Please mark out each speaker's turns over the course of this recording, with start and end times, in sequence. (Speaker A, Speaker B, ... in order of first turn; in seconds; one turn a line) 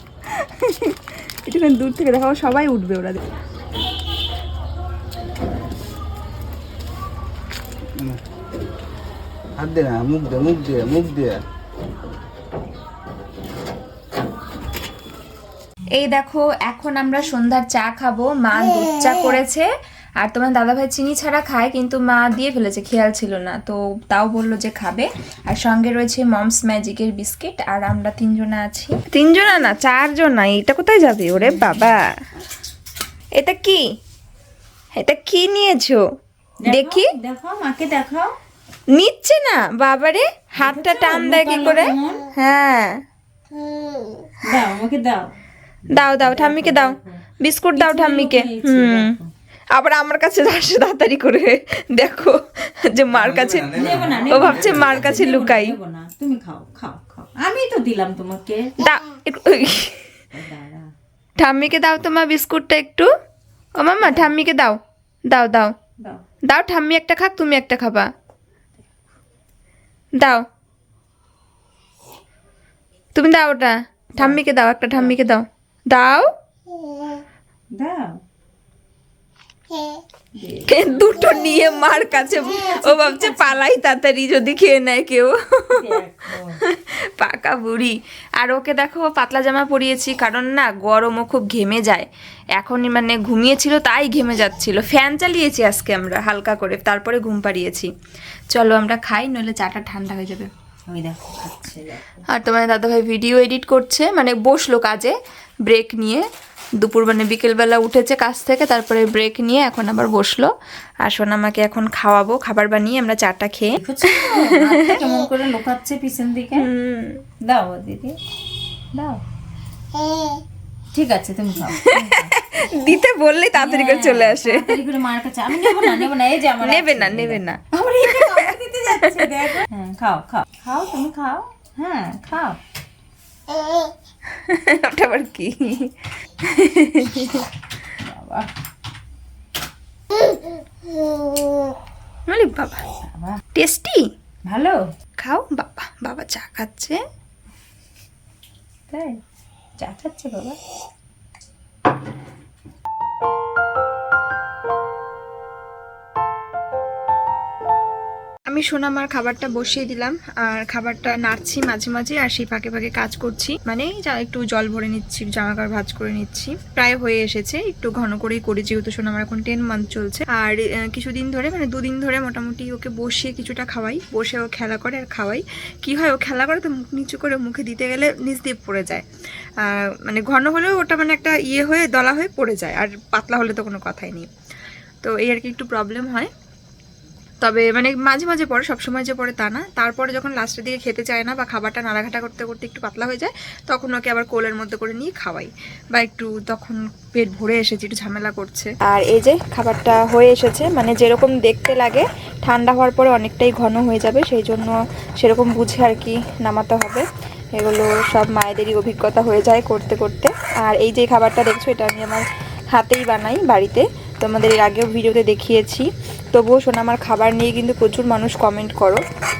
Speaker A: 0.3-3.2
Speaker B: 9.6-11.4
Speaker A: 15.9-19.7
Speaker A: 20.2-32.1
Speaker C: 31.4-31.9
Speaker A: 33.4-33.8
Speaker A: 35.0-36.0
Speaker C: 36.6-38.4
Speaker A: 36.6-37.1
Speaker A: 38.9-43.0
Speaker C: 40.6-42.2
Speaker C: 44.4-45.3
Speaker A: 45.9-49.2
Speaker C: 45.9-47.2
Speaker C: 47.7-49.3
Speaker A: 49.7-55.8
Speaker B: 53.1-55.1
Speaker C: 53.7-58.7
Speaker A: 58.8-60.0
Speaker C: 60.3-60.9
Speaker A: 61.4-63.1
Speaker A: 63.8-64.8
Speaker C: 64.0-64.3
Speaker A: 65.3-65.7
Speaker A: 66.5-68.1
Speaker A: 70.2-70.4
Speaker A: 73.2-76.3
Speaker C: 74.2-75.2
Speaker C: 77.7-78.2
Speaker C: 80.3-83.7
Speaker A: 80.7-85.9
Speaker C: 85.7-86.6
Speaker A: 86.6-97.9
Speaker A: 98.5-100.5
Speaker C: 100.9-102.2
Speaker A: 102.3-105.1
Speaker A: 105.7-106.2
Speaker A: 106.8-110.5
Speaker A: 111.0-114.9
Speaker C: 113.8-116.7
Speaker A: 116.5-117.2
Speaker C: 117.4-118.1
Speaker C: 118.9-119.2
Speaker C: 120.9-122.3
Speaker A: 121.8-124.8
Speaker C: 123.5-132.6
Speaker A: 125.5-126.0
Speaker A: 126.6-129.3
Speaker A: 134.3-137.5
Speaker C: 138.0-138.5
Speaker A: 142.3-142.8
Speaker C: 143.1-143.4
Speaker A: 143.5-144.1
Speaker C: 144.4-144.8
Speaker A: 145.2-147.0
Speaker C: 148.9-149.2
Speaker C: 149.8-150.6
Speaker A: 158.5-179.0
Speaker A: 179.6-184.3
Speaker A: 185.0-186.3
Speaker A: 187.4-219.0